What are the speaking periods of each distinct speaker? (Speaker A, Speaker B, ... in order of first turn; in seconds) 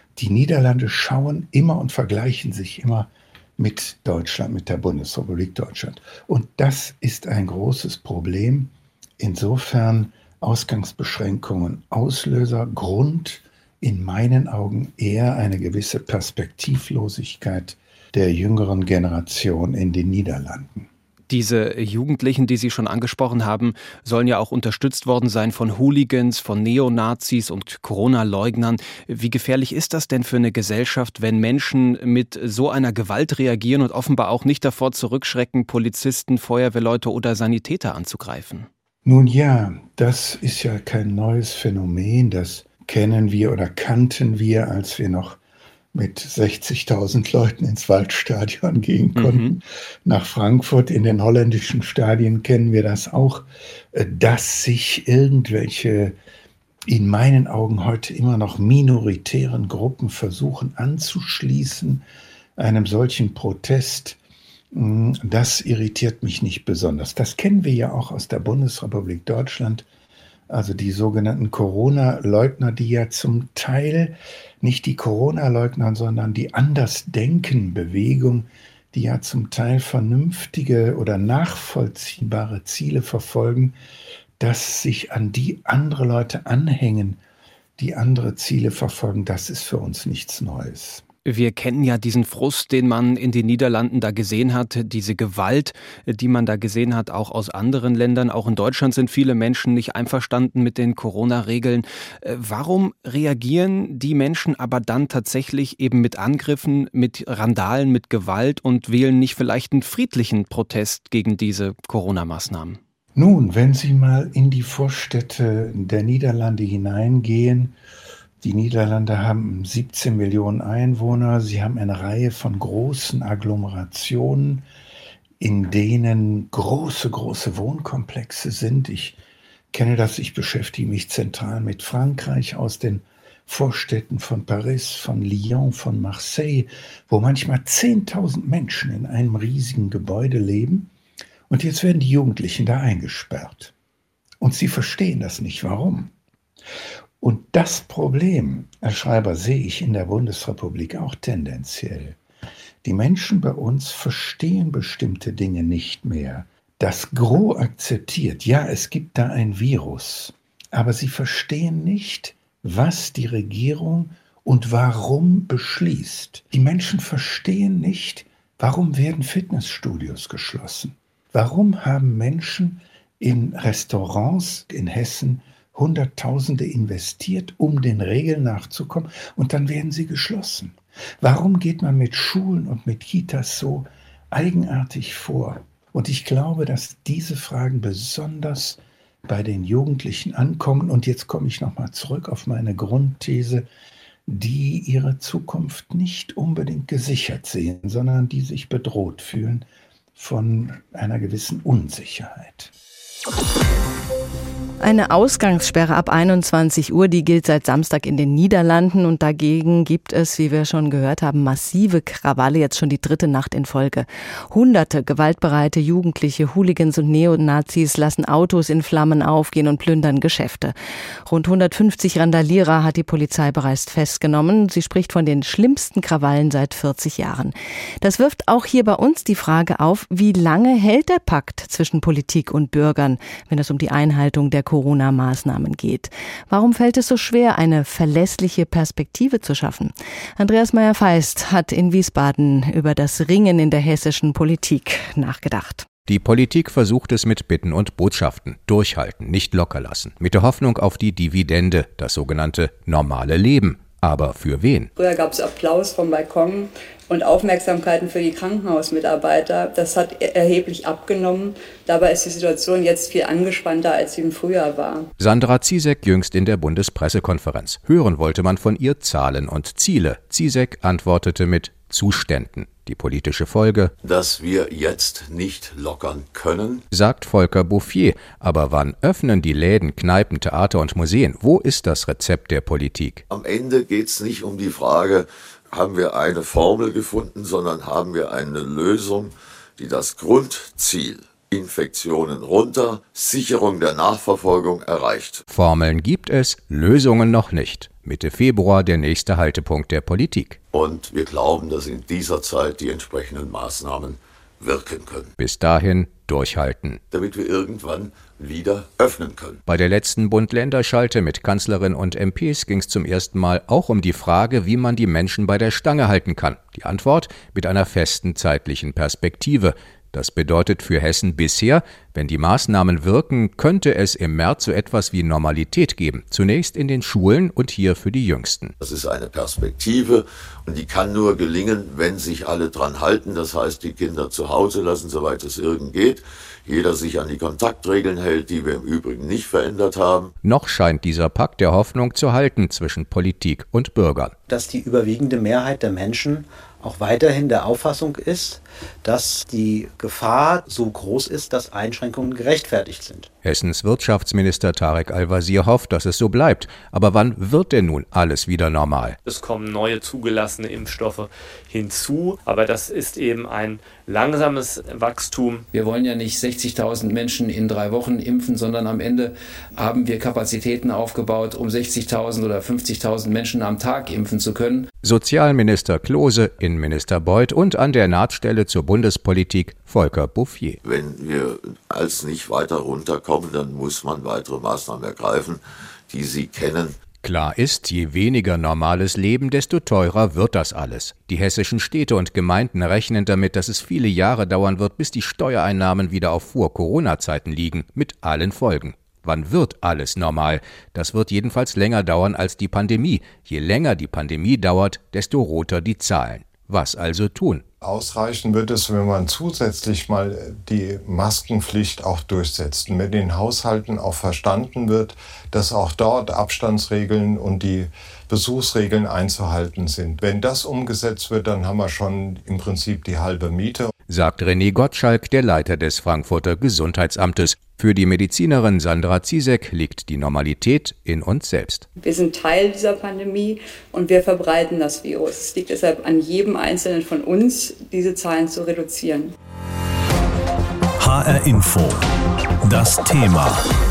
Speaker A: 0.2-20.9, 39.0-45.4, 45.9-56.1, 56.9-62.0, 62.6-64.2, 64.7-69.8, 70.5-83.8, 84.4-87.2, 87.8-91.0, 113.1-117.8, 118.4-124.6, 125.4-129.2, 129.7-140.9, 141.5-143.7, 144.4-146.1, 147.2-152.2, 152.8-193.7, 194.3-202.7
Speaker B: 21.3-38.7, 49.1-49.5, 91.2-112.8
Speaker C: 204.8-220.7, 221.3-245.8
Speaker D: 246.1-254.9, 265.2-273.9, 276.9-283.2, 295.5-300.6, 305.4-307.0, 309.7-328.7, 340.4-344.3, 353.4-359.2, 375.0-380.8, 387.2-407.6, 424.1-431.9
Speaker E: 254.9-265.1, 432.0-439.3
Speaker F: 274.0-276.8, 283.3-295.4, 300.7-305.3, 307.1-309.6, 328.8-340.3, 380.8-387.0
Speaker G: 344.5-353.3
Speaker H: 359.2-365.7
Speaker I: 365.8-369.3, 369.8-374.7
Speaker J: 407.8-423.9
Speaker K: 441.0-442.0, 442.6-443.7